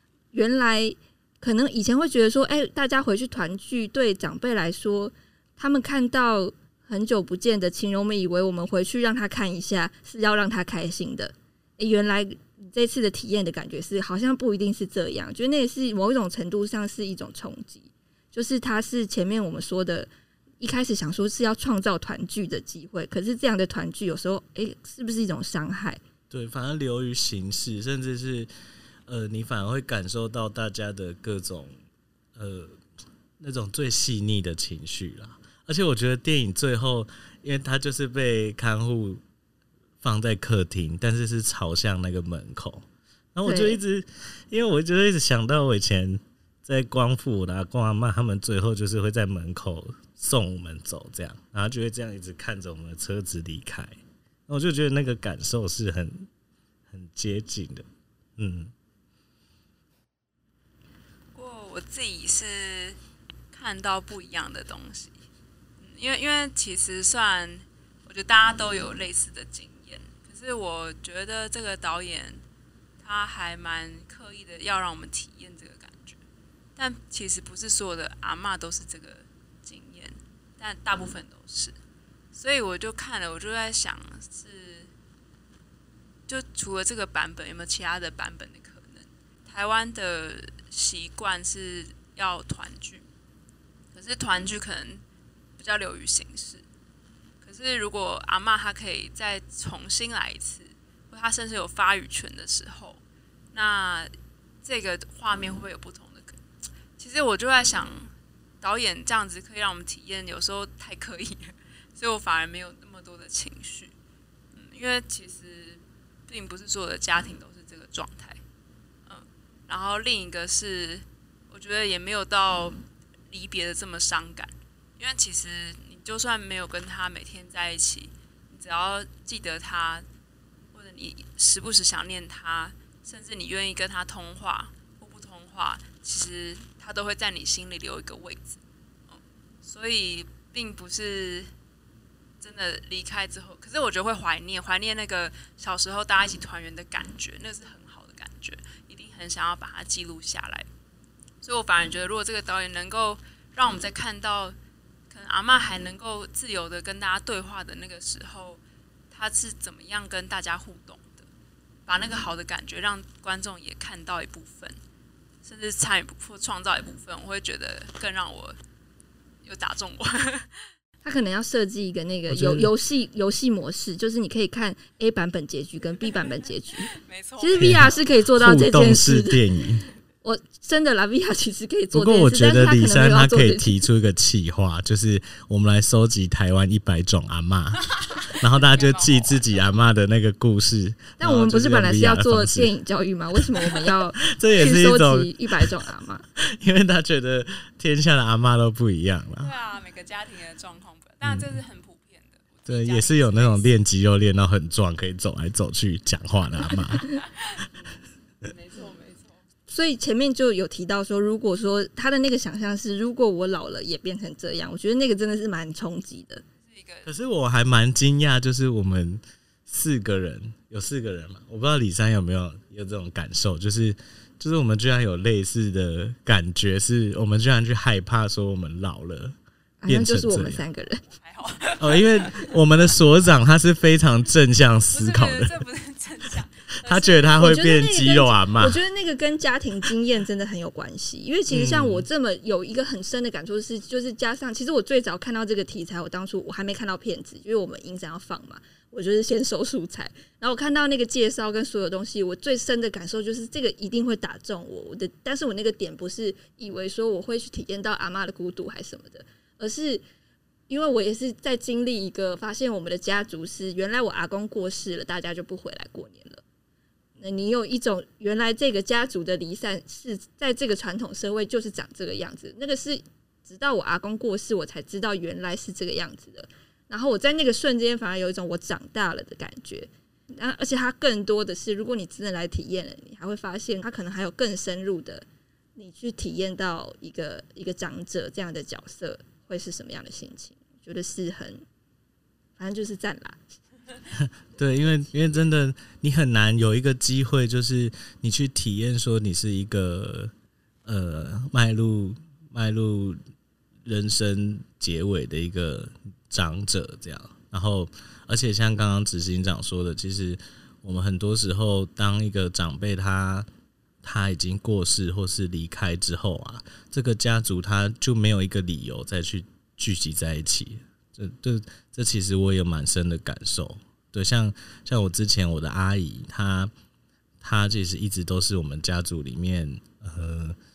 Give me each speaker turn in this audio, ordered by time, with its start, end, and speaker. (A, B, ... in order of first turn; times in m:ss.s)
0:00.3-0:26.0 A
0:26.3-0:28.5 B
0:29.1-0:31.7 B
0:32.4-0:32.8 B
0:33.4-0:39.2 B
0:40.0-0:56.3 B
0:43.4-0:43.8 A
0:56.9-0:57.8 B
0:58.4-0:58.7 B
1:01.3-1:03.0 C
1:03.5-1:05.2 C
1:05.8-1:12.4 C
1:13.0-1:16.2 C
1:16.8-1:21.8 C
1:22.3-1:24.9 C
1:26.3-1:33.0 C
1:33.9-1:35.0 C
1:35.6-1:36.6 C
1:37.4-1:43.0 C
1:43.5-1:46.4 C
1:47.0-1:53.9 C
1:54.5-1:58.4 C
1:59.0-2:10.0 C
2:10.7-2:21.5 C
2:22.4-2:30.7 C
2:31.4-2:34.6 C
2:35.1-2:41.3 C
2:41.8-2:44.8 C
2:45.4-2:48.6 C
2:49.4-2:50.7 C
2:51.0-2:59.4 A
2:52.3-2:52.7 B
2:56.8-2:58.0 C
2:57.6-2:59.9 B
3:00.2-3:03.8 A
3:01.9-3:12.7 B
3:08.2-3:09.5 C
3:11.2-3:16.2 A
3:14.2-3:15.6 B
3:16.5-3:19.5 B
3:19.4-3:23.7 C
3:21.2-3:21.6 B
3:22.7-3:27.7 B
3:27.1-3:29.4 C
3:29.7-3:36.4 A
3:36.6-3:37.1 C
3:37.0-3:50.6 B
3:49.8-3:51.0 A
3:51.1-3:52.6 C
3:51.8-3:55.6 B
3:54.9-3:57.5 C
3:56.8-3:58.8 B
3:57.4-4:20.0 A
4:01.5-4:02.1 B
4:20.7-4:26.4 A
4:27.2-4:45.2 A
4:45.8-4:51.6 A
4:52.6-4:53.4 A
4:54.2-5:00.3 B
5:00.8-5:03.2 B
5:03.8-5:13.5 B
5:14.0-5:26.7 B
5:27.4-5:30.6 B